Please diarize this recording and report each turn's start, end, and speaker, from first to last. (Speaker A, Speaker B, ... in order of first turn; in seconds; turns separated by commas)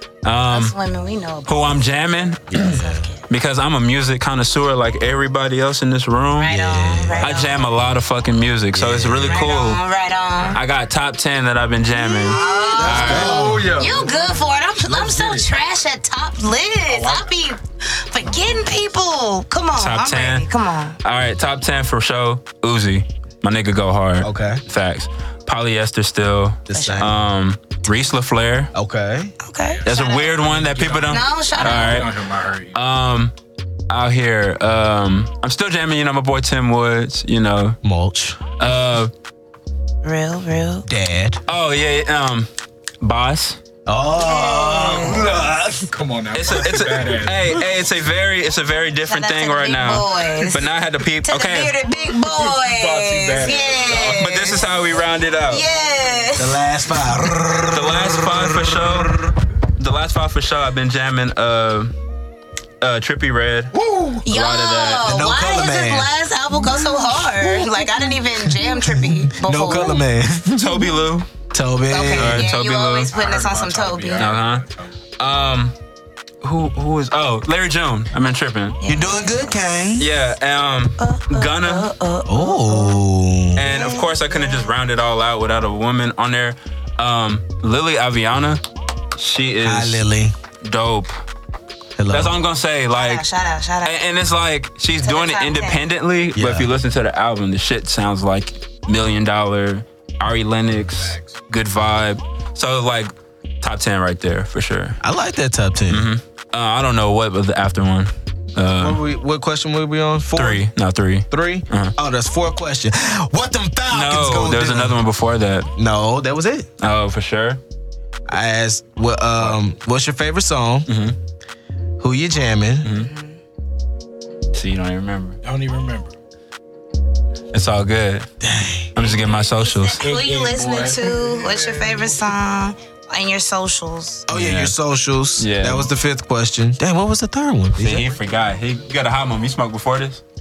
Speaker A: 0.2-0.8, Speaker B: 0.5-1.8, Speaker A: 1.5-6.5, Speaker C: 2.5-3.1, Speaker B: 2.8-3.2, Speaker B: 6.4-7.7, Speaker C: 6.5-7.3, Speaker A: 7.2-9.8, Speaker C: 8.7-9.5, Speaker B: 9.3-10.6, Speaker A: 10.5-13.5, Speaker B: 11.9-21.0, Speaker D: 12.5-15.5, Speaker C: 12.8-13.8, Speaker D: 16.9-17.3, Speaker A: 19.8-20.5, Speaker A: 21.0-28.7, Speaker C: 24.2-24.6, Speaker C: 26.7-27.2, Speaker B: 26.7-27.1, Speaker C: 28.7-29.4, Speaker B: 29.4-30.4, Speaker A: 29.9-33.3, Speaker D: 30.3-32.8, Speaker B: 31.1-32.1, Speaker A: 33.9-37.8, Speaker C: 37.8-38.4, Speaker A: 38.6-39.1, Speaker B: 40.0-40.9, Speaker C: 40.9-41.4, Speaker A: 41.5-42.5, Speaker A: 43.0-43.6, Speaker C: 43.9-45.9, Speaker B: 44.2-45.3, Speaker D: 45.9-47.6, Speaker A: 46.4-51.8, Speaker B: 49.1-50.7, Speaker B: 51.2-54.8, Speaker D: 52.6-54.2, Speaker A: 53.9-55.6, Speaker B: 55.5-56.6, Speaker C: 56.4-59.3, Speaker A: 57.7-62.0, Speaker A: 62.8-63.7, Speaker C: 63.8-64.2, Speaker B: 64.2-70.0, Speaker A: 64.3-65.1, Speaker C: 65.0-70.9, Speaker A: 70.5-71.3, Speaker C: 71.5-72.5, Speaker B: 71.9-74.3, Speaker A: 72.2-73.2, Speaker D: 73.1-74.9, Speaker A: 74.2-74.7, Speaker A: 75.2-75.8, Speaker A: 76.4-78.8, Speaker B: 78.8-79.5, Speaker C: 78.9-80.1, Speaker A: 80.0-81.9, Speaker B: 81.0-83.0, Speaker C: 82.3-83.7, Speaker A: 83.5-88.6, Speaker B: 83.6-84.7, Speaker A: 89.2-90.0, Speaker C: 89.6-90.4, Speaker A: 90.6-91.2, Speaker C: 92.0-92.4, Speaker A: 92.1-93.2, Speaker B: 92.9-94.0, Speaker A: 93.8-105.0, Speaker B: 95.0-95.8, Speaker C: 96.3-96.7, Speaker D: 100.8-101.3, Speaker C: 105.0-106.1, Speaker A: 105.9-109.0, Speaker C: 108.8-110.7, Speaker A: 110.3-112.0, Speaker C: 111.3-115.0, Speaker A: 113.9-115.7, Speaker C: 115.8-116.7, Speaker A: 116.8-117.6, Speaker C: 118.3-120.9, Speaker A: 120.9-121.2, Speaker C: 122.0-122.9, Speaker A: 122.8-123.1, Speaker B: 122.9-123.4, Speaker A: 124.5-125.4, Speaker D: 125.4-126.1, Speaker A: 127.5-128.3, Speaker C: 128.4-129.0, Speaker A: 128.9-130.0, Speaker B: 129.2-134.3, Speaker D: 130.0-132.2, Speaker C: 134.3-138.1, Speaker A: 134.3-134.8, Speaker A: 135.4-135.9, Speaker A: 137.8-140.2